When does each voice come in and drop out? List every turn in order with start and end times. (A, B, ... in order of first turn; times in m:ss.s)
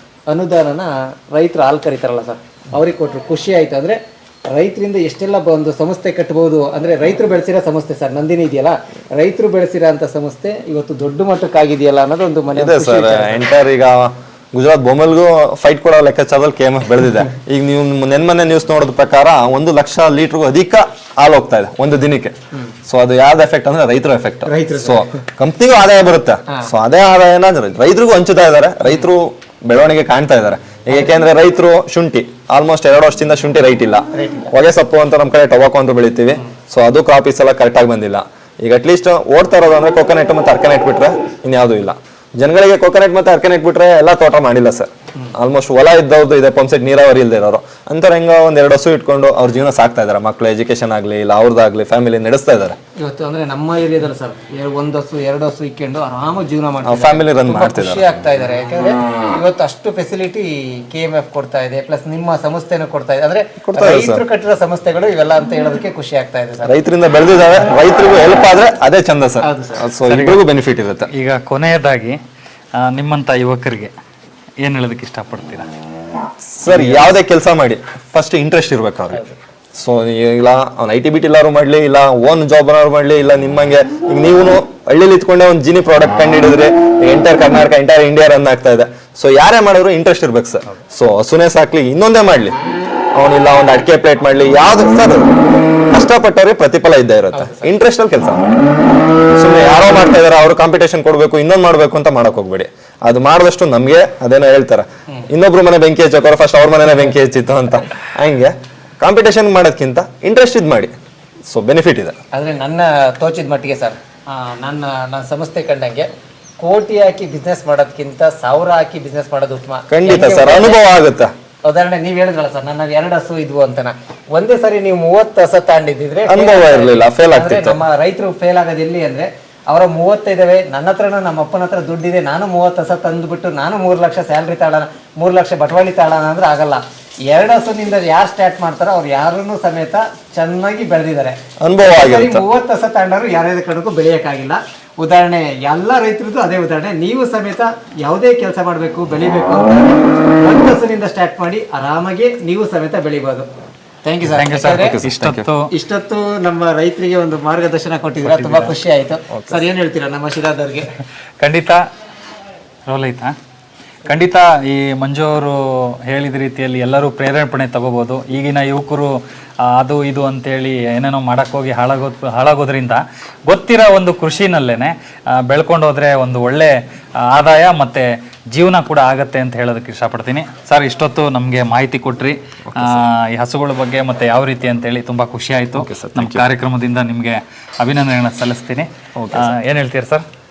0:00.3-0:13.4 A
0:12.5-0:22.4 B
0:22.9-0:52.8 B
0:24.5-0:25.1 A
0:34.2-0:34.5 A
0:53.0-1:06.8 A
0:56.8-0:58.1 B
1:03.6-1:04.2 B
1:06.6-1:11.1 B
1:09.4-1:09.8 A
1:10.1-1:10.4 C
1:11.1-1:12.2 C
1:12.8-1:13.9 C
1:14.6-1:15.7 C
1:16.5-1:32.6 B
1:16.7-1:17.1 C
1:33.2-1:35.3 B
1:35.9-1:38.4 B
1:37.3-1:37.7 A
1:39.4-1:50.9 B
1:51.5-1:52.2 B
1:52.3-1:56.1 A
1:56.6-2:01.0 A
1:59.9-2:01.3 B
2:01.6-2:33.5 A
2:06.3-2:07.8 B
2:21.6-2:22.4 B
2:34.0-2:35.0 A
2:34.4-2:35.7 C
2:34.6-2:35.5 B
2:35.7-2:40.9 A
2:38.2-2:38.7 C
2:39.3-2:39.6 B
2:41.4-2:41.8 C
2:42.9-2:43.4 C
2:44.0-3:10.2 C
3:02.7-3:03.0 B
3:05.8-3:06.5 B
3:09.2-3:09.6 B